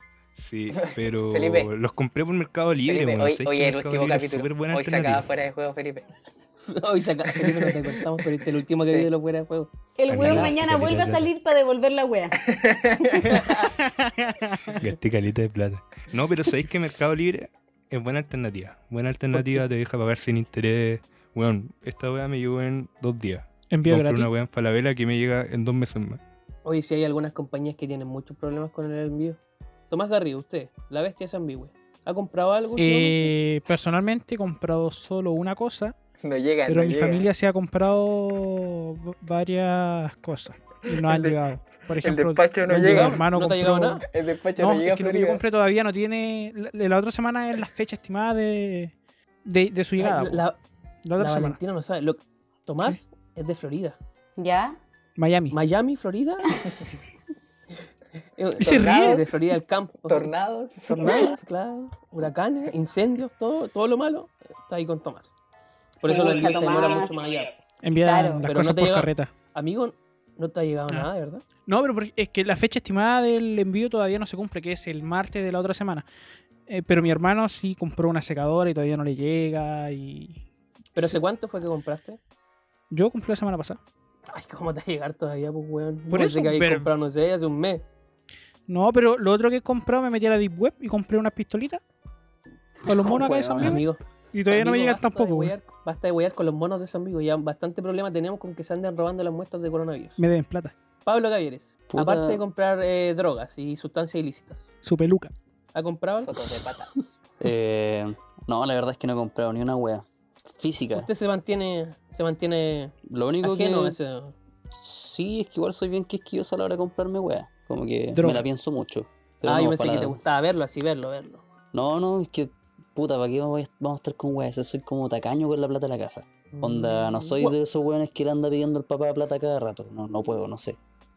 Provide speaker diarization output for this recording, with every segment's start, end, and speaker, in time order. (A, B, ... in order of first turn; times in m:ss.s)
0:00.4-0:05.3 A
0:00.8-0:01.7 B
0:02.8-0:06.1 B
0:06.6-0:10.5 C
0:08.8-0:09.1 B
0:10.0-0:12.4 D
0:10.1-0:11.3 A
0:12.4-0:13.6 B
0:13.3-0:13.7 C
0:14.0-0:14.7 E
0:14.7-0:26.2 A
0:19.3-0:19.6 C
0:23.7-0:24.3 E
0:26.6-0:29.4 C
0:29.9-0:33.3 C
0:32.8-0:35.9 E
0:36.2-0:37.3 B
0:36.7-0:44.0 E
0:40.9-0:41.4 B
0:42.0-0:43.2 B
0:42.7-0:44.1 C
0:44.1-0:45.4 B
0:44.6-0:48.9 E
0:49.4-0:50.4 E
0:50.0-0:50.6 C
0:51.0-0:51.6 E
0:51.2-0:54.0 C
0:54.4-0:54.8 D
0:55.2-0:55.6 E
0:55.5-0:56.5 C
0:58.4-1:05.3 C
0:58.6-0:59.4 B
0:58.6-0:59.3 E
1:00.1-1:01.4 B
1:06.0-1:07.5 C
1:06.0-1:07.2 D
1:07.8-1:09.3 E
1:08.0-1:08.5 D
1:08.4-1:11.4 C
1:11.6-1:16.1 E
1:16.7-1:20.4 E
1:21.0-1:22.2 C
1:22.9-1:23.8 E
1:24.3-1:27.8 C
1:26.1-1:26.9 E
1:28.7-1:31.8 E
1:32.8-1:35.6 E
1:32.9-1:33.8 F
1:33.6-1:40.2 C
1:40.2-1:40.7 E
1:41.0-1:44.6 C
1:41.9-1:42.4 F
1:44.8-1:45.3 E
1:45.7-1:46.4 C
1:46.2-1:47.1 B
1:47.4-1:51.1 F
1:50.9-1:54.3 C
1:53.1-1:54.0 F
1:54.7-2:00.2 F
1:58.1-1:58.4 E
1:59.4-2:01.4 C
2:01.7-2:10.8 F
2:06.5-2:07.6 C